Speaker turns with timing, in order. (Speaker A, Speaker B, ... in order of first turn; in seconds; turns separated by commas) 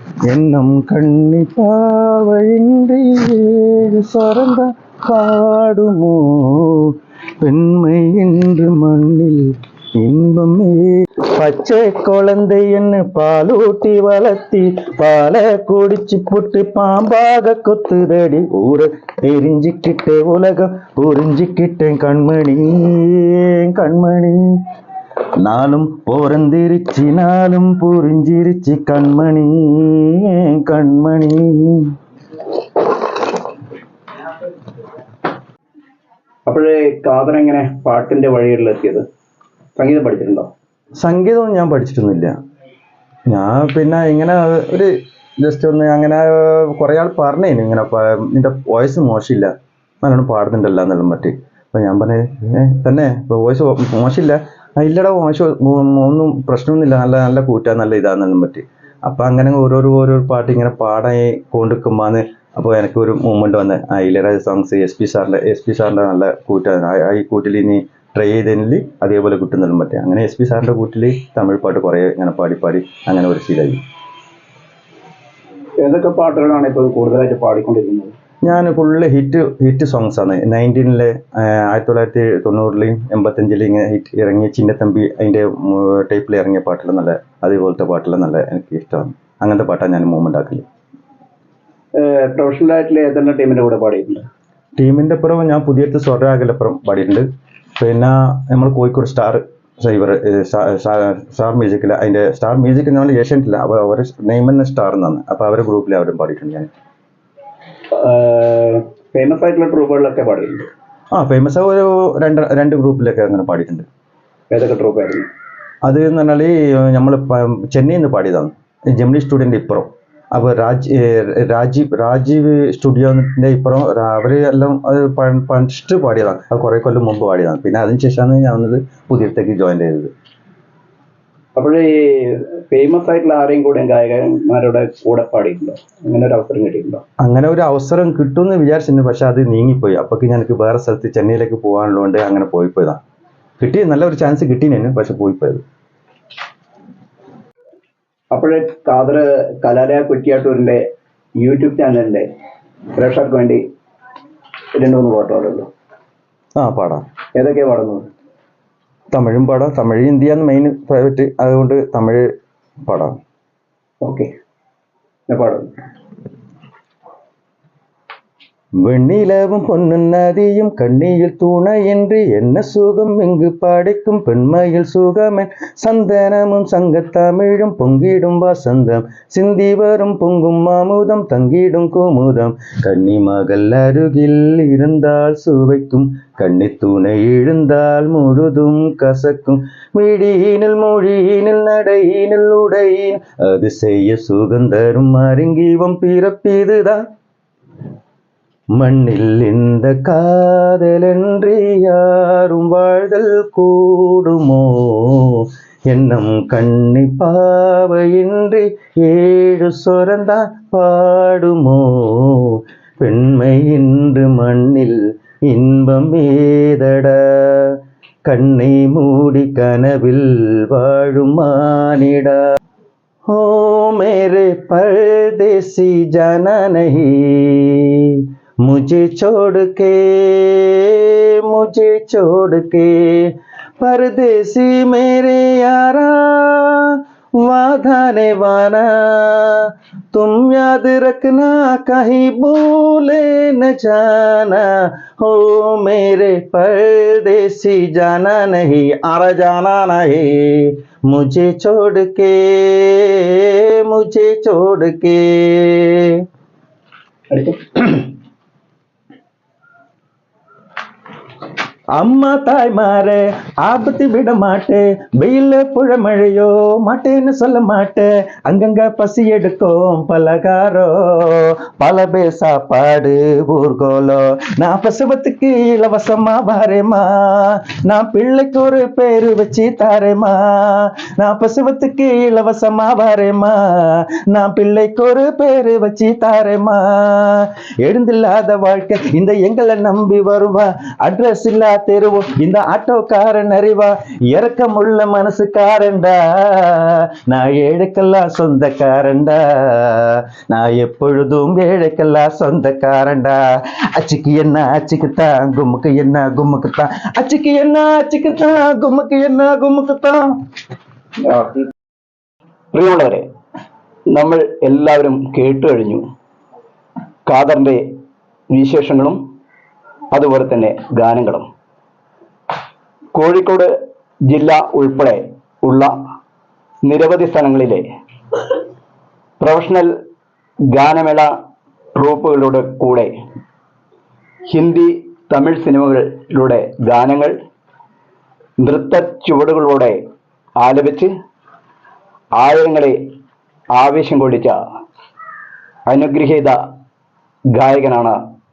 Speaker A: 0.3-24.4, Speaker A: 25.4-31.9, Speaker B: 36.5-39.0, Speaker B: 39.8-40.5, Speaker A: 41.0-42.3, Speaker A: 43.3-73.8, Speaker B: 75.8-78.1, Speaker A: 78.4-90.6, Speaker B: 92.0-94.2, Speaker A: 94.8-97.3, Speaker A: 97.8-106.7, Speaker B: 107.9-110.7, Speaker A: 111.1-113.8, Speaker B: 114.5-115.3, Speaker A: 115.8-130.1, Speaker B: 131.6-137.0, Speaker A: 137.2-143.0, Speaker A: 143.6-145.6, Speaker B: 148.3-150.8, Speaker B: 151.4-152.3, Speaker B: 152.9-153.6, Speaker B: 154.8-155.7, Speaker A: 156.6-157.0, Speaker B: 157.3-158.1, Speaker A: 159.1-162.3, Speaker A: 162.9-163.2, Speaker B: 164.0-164.3, Speaker B: 165.3-165.7, Speaker A: 168.8-197.0, Speaker A: 198.8-217.7, Speaker A: 218.3-222.4, Speaker A: 223.3-256.1, Speaker B: 257.3-258.1, Speaker A: 262.0-303.4, Speaker A: 304.0-310.2, Speaker B: 311.2-311.7, Speaker B: 312.7-313.2, Speaker B: 314.1-316.0, Speaker B: 317.3-317.8, Speaker B: 318.5-319.2, Speaker B: 320.1-321.4, Speaker B: 323.1-323.7, Speaker B: 324.3-325.9, Speaker B: 326.8-327.8, Speaker B: 329.4-329.9, Speaker B: 330.7-331.3, Speaker B: 331.9-333.1, Speaker B: 334.5-337.3, Speaker B: 338.6-340.0, Speaker B: 340.6-341.1, Speaker B: 342.4-343.0, Speaker B: 343.7-344.5, Speaker B: 345.9-346.6, Speaker B: 347.5-348.2